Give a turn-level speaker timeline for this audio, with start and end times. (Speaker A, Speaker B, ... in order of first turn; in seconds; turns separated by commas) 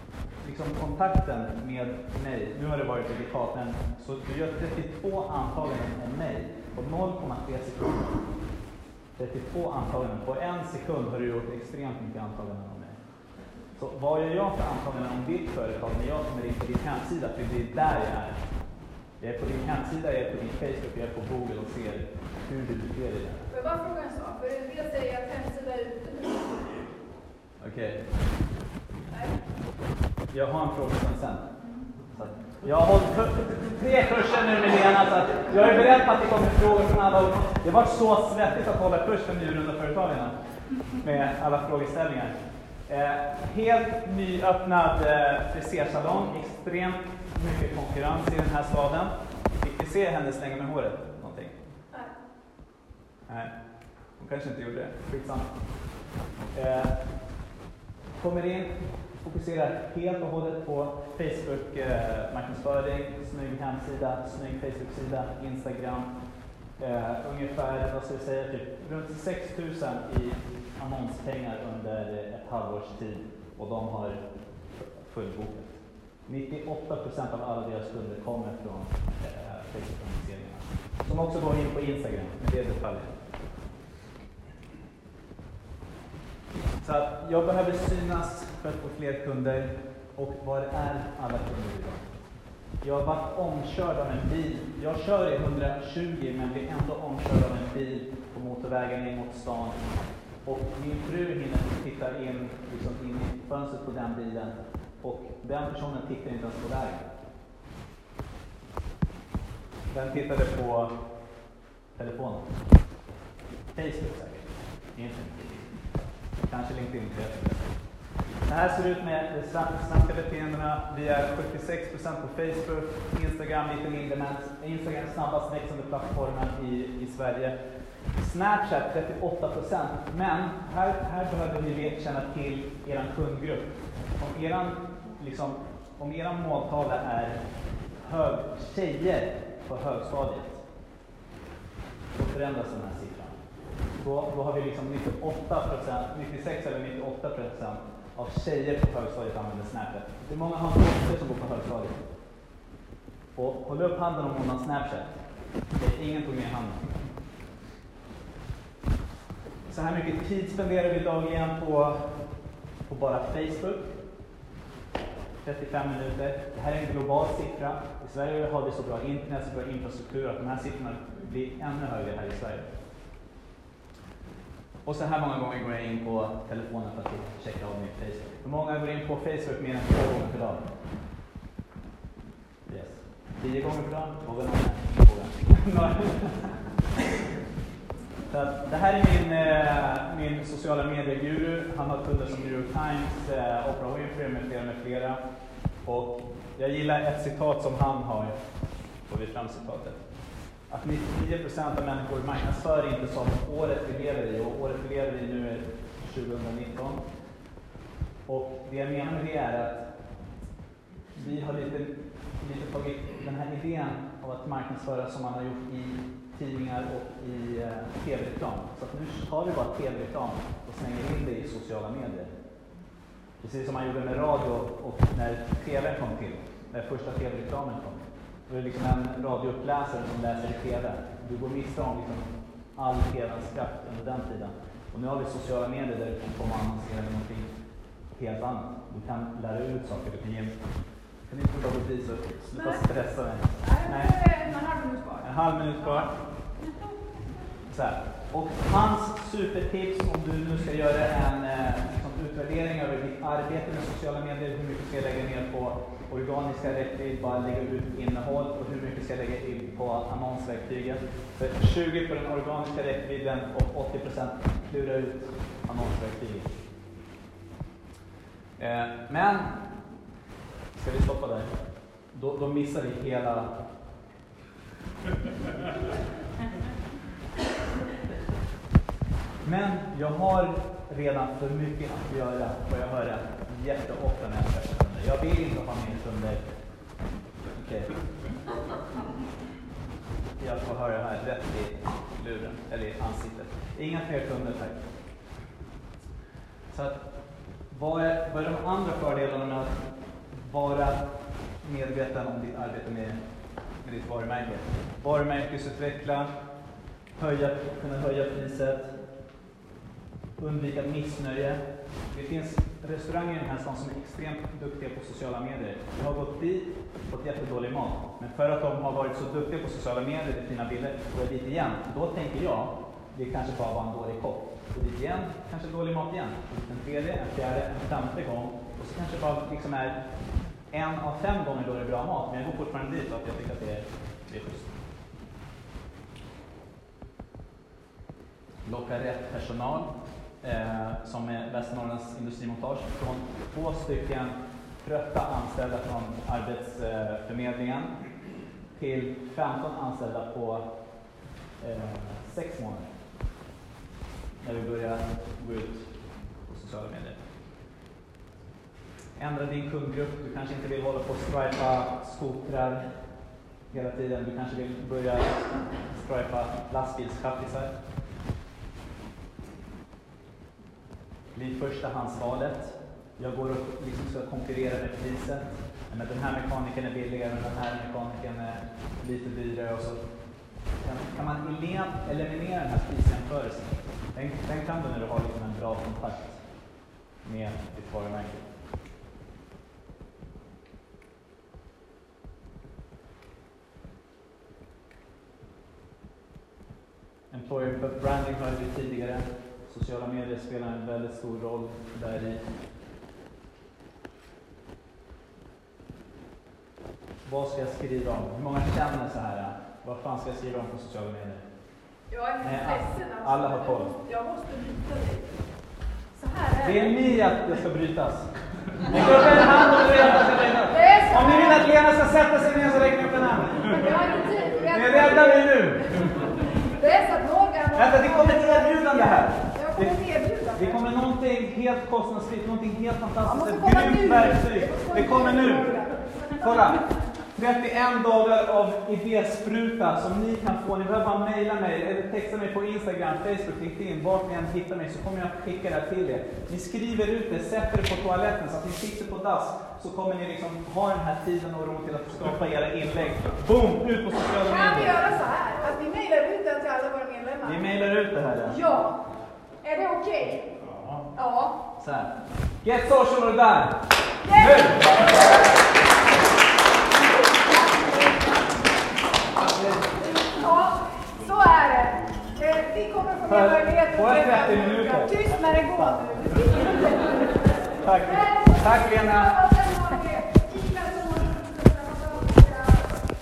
Speaker A: 0.4-8.2, Speaker A: 9.2-13.0, Speaker A: 13.8-18.4, Speaker A: 19.2-23.5, Speaker B: 23.5-26.6, Speaker A: 27.6-28.1, Speaker B: 29.1-29.4, Speaker A: 30.3-31.5, Speaker A: 32.1-42.4, Speaker A: 42.9-51.5, Speaker A: 53.3-55.6, Speaker A: 56.5-57.0, Speaker A: 58.2-66.1, Speaker A: 66.8-83.2, Speaker A: 86.8-92.1, Speaker A: 92.8-99.8, Speaker A: 100.4-107.1, Speaker A: 109.9-110.9, Speaker A: 111.9-112.5, Speaker A: 113.7-115.8, Speaker A: 116.4-117.8, Speaker A: 118.3-127.5, Speaker A: 128.2-137.4, Speaker A: 138.0-140.6, Speaker A: 142.1-143.3, Speaker A: 144.0-152.0, Speaker A: 153.3-156.9, Speaker A: 159.7-162.2, Speaker A: 162.8-163.9, Speaker A: 165.4-172.7, Speaker A: 174.8-180.7, Speaker A: 182.7-186.6, Speaker A: 188.3-195.2, Speaker A: 195.8-198.4, Speaker A: 199.1-200.0, Speaker A: 200.7-207.0, Speaker A: 208.3-209.9, Speaker A: 211.2-222.3, Speaker A: 223.4-237.5, Speaker A: 238.1-240.6, Speaker A: 241.3-244.3, Speaker B: 242.6-242.9, Speaker B: 243.6-245.3, Speaker A: 245.2-246.1, Speaker A: 247.7-266.5, Speaker A: 268.6-269.6, Speaker A: 270.8-271.6, Speaker A: 272.1-273.5, Speaker A: 279.4-286.4, Speaker A: 287.5-288.0, Speaker A: 290.4-294.8, Speaker A: 296.7-297.0, Speaker A: 297.7-303.2, Speaker A: 303.8-306.3, Speaker A: 307.2-308.9, Speaker A: 310.4-330.0, Speaker A: 330.7-334.7, Speaker A: 338.7-339.9, Speaker A: 340.4-347.9, Speaker A: 348.7-350.7, Speaker A: 351.6-352.9, Speaker A: 354.4-357.2, Speaker A: 359.2-362.9, Speaker A: 363.7-367.7, Speaker A: 371.3-380.0, Speaker A: 380.8-386.4, Speaker A: 387.2-388.5, Speaker A: 397.3-402.4, Speaker A: 407.3-411.4, Speaker B: 412.1-415.4, Speaker A: 412.4-413.9, Speaker B: 416.1-417.1, Speaker A: 416.6-424.0, Speaker B: 420.7-421.7, Speaker B: 423.7-425.6, Speaker A: 424.6-426.1, Speaker B: 426.6-430.7, Speaker A: 427.8-455.0, Speaker B: 433.2-436.6, Speaker B: 454.4-457.7, Speaker A: 457.4-458.6, Speaker B: 458.4-459.1, Speaker B: 459.6-460.6, Speaker A: 460.7-461.1, Speaker B: 461.1-461.6, Speaker A: 461.8-465.0, Speaker B: 464.2-465.5, Speaker B: 467.2-468.4, Speaker A: 469.4-469.9, Speaker B: 470.1-483.0, Speaker A: 473.3-476.2, Speaker A: 477.8-479.5